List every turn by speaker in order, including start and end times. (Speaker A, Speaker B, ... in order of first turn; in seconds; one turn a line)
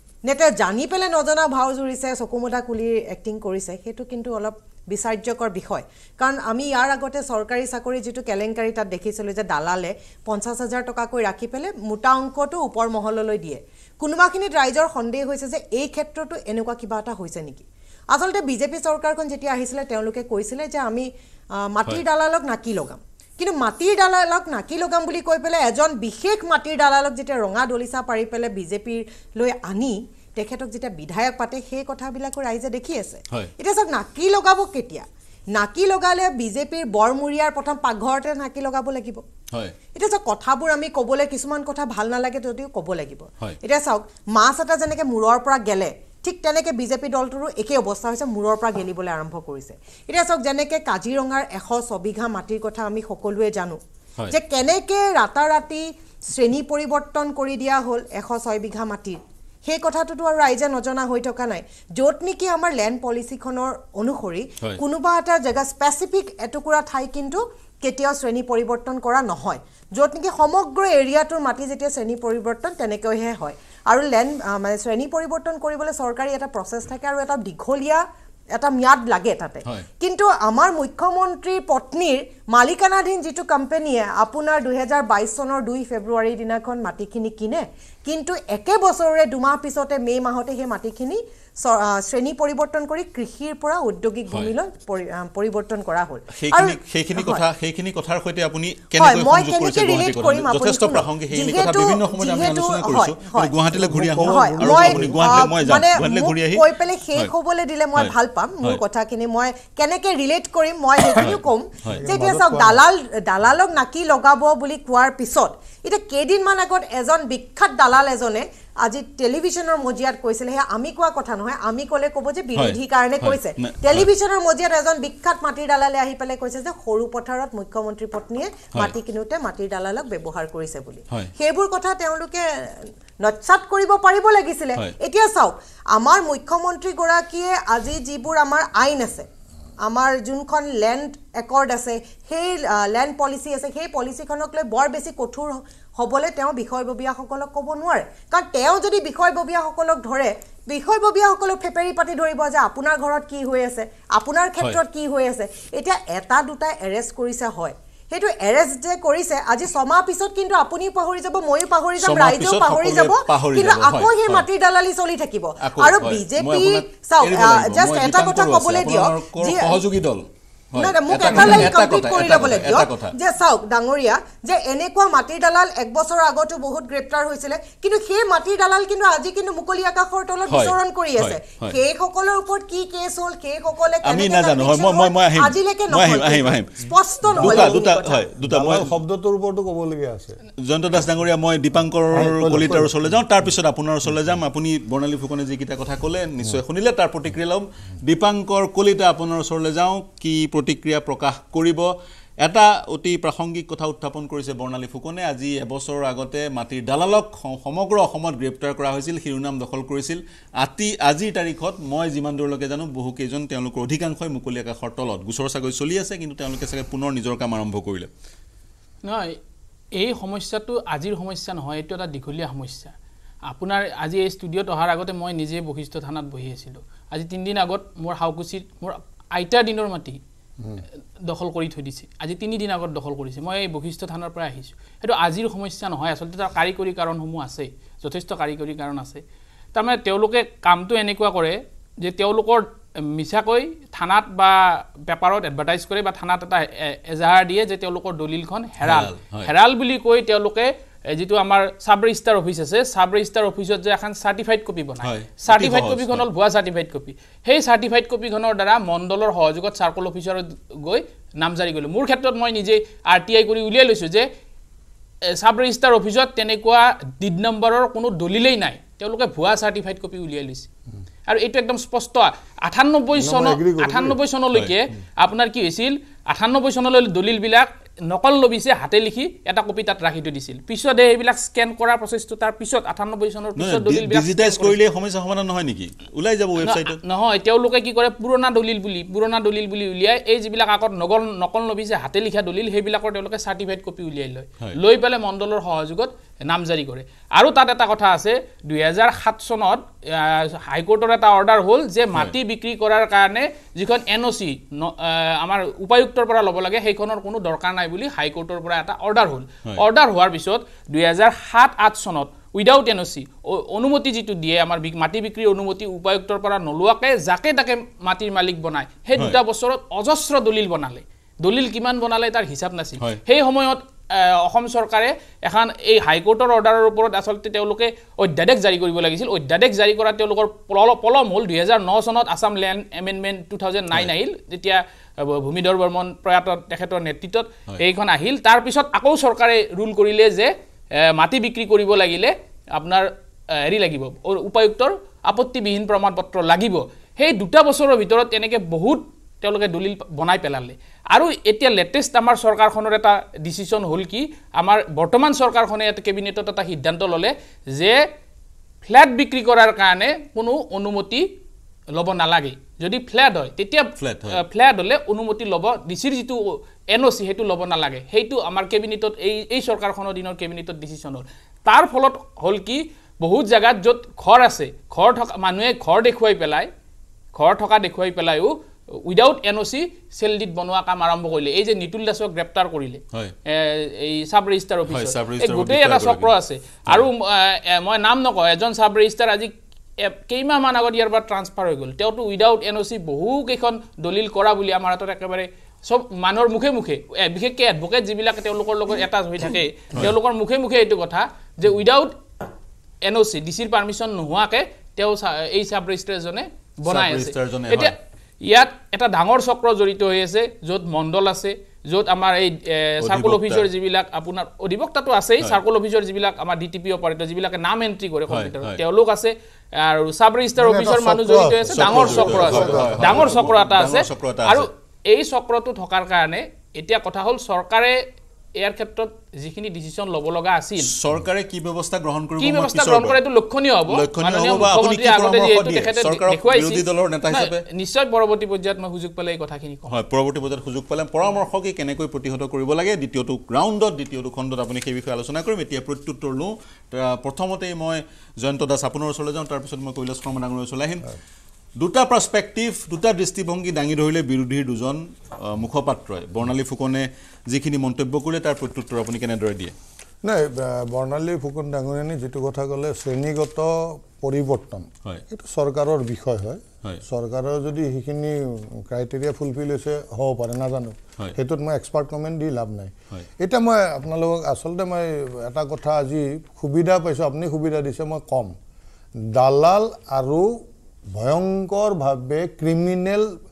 Speaker A: 0.2-39.2
Speaker A: 39.9-97.4
Speaker B: 96.3-107.3
Speaker A: 99.0-139.3
Speaker C: 103.7-105.5
Speaker B: 108.0-108.8
Speaker B: 111.2-112.0
Speaker C: 111.9-112.8
Speaker B: 122.5-124.1
Speaker A: 139.8-169.8
Speaker B: 162.0-164.4
Speaker B: 165.6-173.1
Speaker A: 170.8-188.3
Speaker B: 180.5-181.8
Speaker B: 184.0-188.9
Speaker C: 187.2-187.8
Speaker C: 188.4-190.4
Speaker B: 190.6-201.8
Speaker C: 192.1-193.0
Speaker B: 202.4-218.1
Speaker D: 219.0-219.4
Speaker D: 219.9-222.9
Speaker D: 223.5-230.2
Speaker D: 231.3-239.2
Speaker D: 239.7-264.3
Speaker B: 248.8-249.5
Speaker B: 255.0-256.2
Speaker D: 265.4-270.7
Speaker D: 271.3-284.8
Speaker C: 273.1-274.2
Speaker B: 283.6-287.0
Speaker D: 286.6-343.1
Speaker D: 343.6-358.0
Speaker D: 358.8-361.2
Speaker D: 361.9-376.7
Speaker B: 364.0-364.4
Speaker D: 377.3-402.2
Speaker B: 384.9-386.3
Speaker D: 403.0-428.0
Speaker B: 406.9-407.9
Speaker B: 413.0-413.6
Speaker B: 418.3-418.8
Speaker C: 420.6-423.4
Speaker B: 421.7-424.7
Speaker D: 428.6-430.9
Speaker B: 430.8-433.2
Speaker D: 432.4-439.9
Speaker B: 433.9-437.6
Speaker B: 439.9-451.1
Speaker B: 451.8-459.7
Speaker C: 460.2-478.5
Speaker C: 479.2-480.5
Speaker C: 481.1-483.3